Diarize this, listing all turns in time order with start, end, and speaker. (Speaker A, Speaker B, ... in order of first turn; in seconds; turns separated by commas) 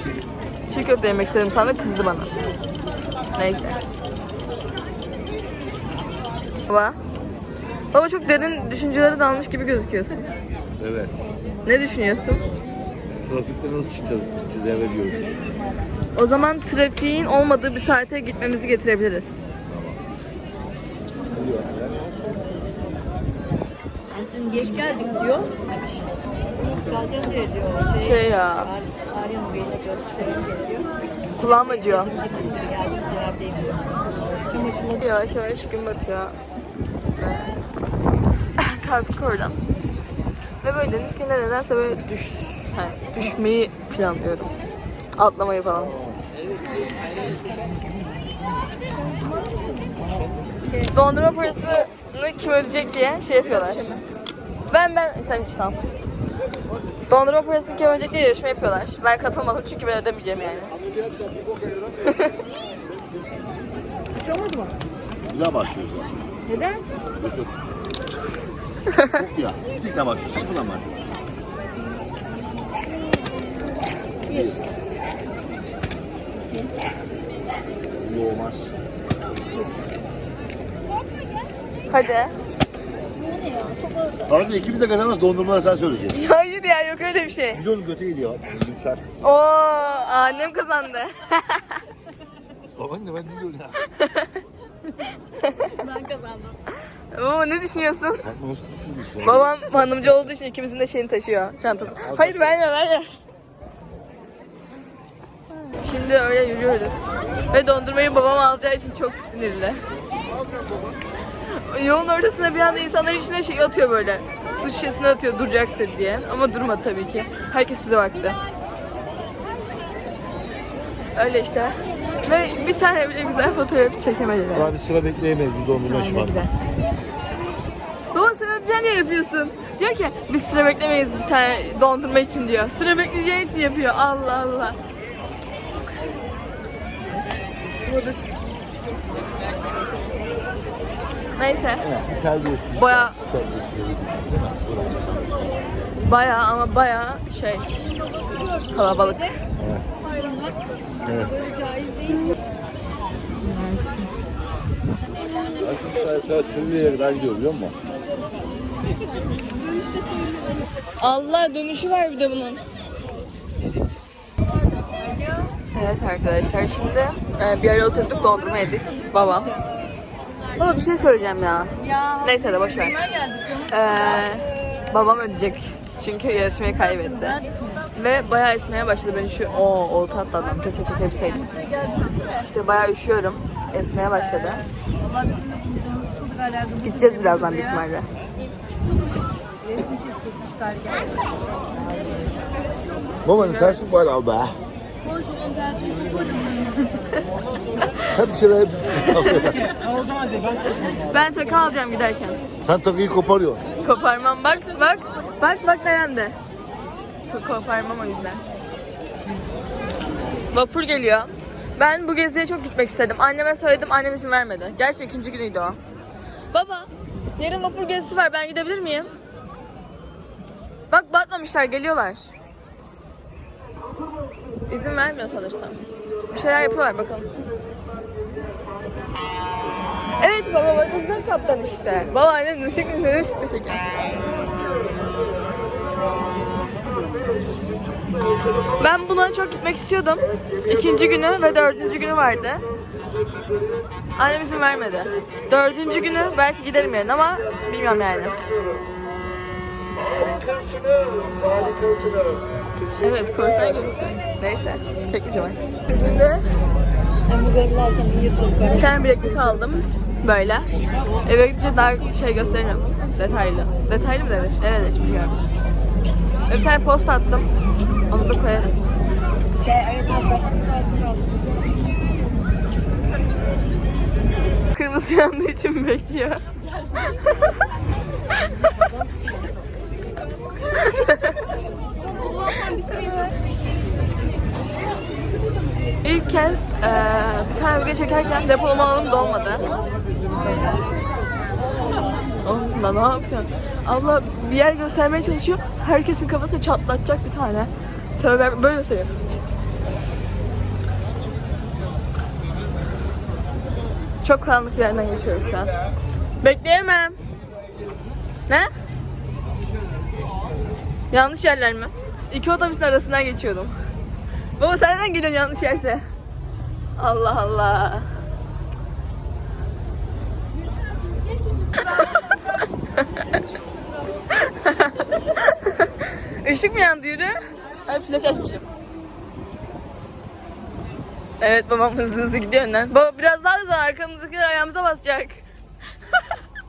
Speaker A: 0.7-2.3, Speaker A: 3.4-3.8, Speaker A: 6.7-7.0, Speaker A: 7.9-10.3, Speaker B: 10.8-11.2, Speaker A: 11.6-12.5, Speaker B: 13.2-15.4, Speaker A: 16.1-19.4, Speaker B: 19.7-20.0, Speaker B: 21.3-22.0, Speaker C: 24.1-25.6, Speaker C: 26.7-30.9, Speaker A: 28.0-28.7, Speaker A: 31.4-32.1, Speaker C: 31.7-34.8, Speaker A: 34.6-36.4, Speaker A: 37.2-37.5, Speaker A: 38.6-39.6, Speaker A: 40.6-44.5, Speaker A: 45.2-46.0, Speaker C: 49.0-49.9, Speaker A: 50.9-54.0, Speaker A: 54.7-55.8, Speaker A: 57.1-60.8, Speaker A: 62.1-62.3, Speaker C: 64.2-64.8, Speaker B: 65.3-66.2, Speaker C: 66.5-66.9, Speaker B: 67.1-67.5, Speaker B: 69.1-71.0, Speaker B: 74.2-74.6, Speaker B: 78.0-78.8, Speaker A: 81.9-82.4, Speaker C: 83.2-84.3, Speaker B: 84.3-86.2, Speaker A: 86.1-87.6, Speaker B: 87.5-89.0, Speaker A: 89.2-91.8, Speaker B: 92.8-93.8, Speaker A: 93.8-94.4, Speaker A: 95.4-95.8, Speaker C: 95.7-96.6, Speaker A: 97.1-98.3, Speaker B: 98.2-100.2, Speaker A: 99.2-103.1, Speaker B: 102.0-102.5, Speaker A: 105.8-109.8, Speaker A: 111.4-118.4, Speaker A: 121.1-124.7, Speaker B: 124.5-126.5, Speaker A: 125.8-126.5, Speaker A: 128.1-134.8, Speaker A: 137.8-138.3, Speaker A: 141.4-141.9, Speaker B: 141.8-145.3, Speaker A: 142.8-143.2, Speaker A: 146.0-147.9, Speaker A: 148.7-149.4, Speaker B: 149.6-150.0, Speaker C: 150.1-150.5, Speaker B: 151.0-151.4, Speaker C: 151.4-152.3, Speaker A: 153.4-154.1, Speaker B: 155.5-157.8, Speaker C: 159.9-160.3, Speaker A: 161.0-162.6, Speaker C: 165.2-165.5, Speaker A: 165.7-169.6, Speaker A: 170.6-173.0, Speaker C: 171.8-173.7, Speaker A: 173.7-177.4, Speaker C: 177.0-177.8, Speaker A: 177.9-184.7, Speaker C: 181.6-182.2, Speaker C: 184.4-187.8, Speaker A: 186.8-188.1, Speaker C: 189.6-191.2, Speaker B: 193.2-194.6, Speaker A: 193.4-193.8, Speaker C: 195.1-196.8, Speaker B: 198.1-199.7, Speaker A: 199.1-199.4, Speaker A: 201.1-202.4, Speaker B: 202.6-203.6, Speaker A: 203.8-206.4, Speaker A: 207.3-208.4, Speaker A: 210.5-215.8, Speaker A: 216.5-219.1, Speaker A: 220.9-222.3, Speaker A: 224.7-227.4, Speaker A: 230.2-233.9, Speaker A: 238.8-242.6, Speaker A: 244.2-248.4, Speaker A: 253.0-256.5, Speaker C: 257.3-259.1, Speaker A: 258.7-260.7, Speaker A: 261.2-265.4, Speaker A: 266.5-267.5, Speaker A: 268.1-268.7, Speaker C: 269.6-271.7, Speaker A: 274.7-276.4, Speaker A: 277.0-277.6, Speaker A: 280.7-281.5, Speaker C: 282.1-283.3, Speaker A: 286.0-289.7, Speaker A: 292.4-299.2, Speaker A: 304.2-305.8, Speaker A: 306.4-307.2, Speaker B: 307.6-308.1, Speaker B: 309.9-310.5, Speaker A: 311.1-313.8, Speaker A: 314.6-316.1, Speaker A: 317.0-318.1, Speaker A: 321.8-322.2, Speaker A: 323.0-323.4, Speaker A: 324.3-328.6, Speaker A: 331.4-335.4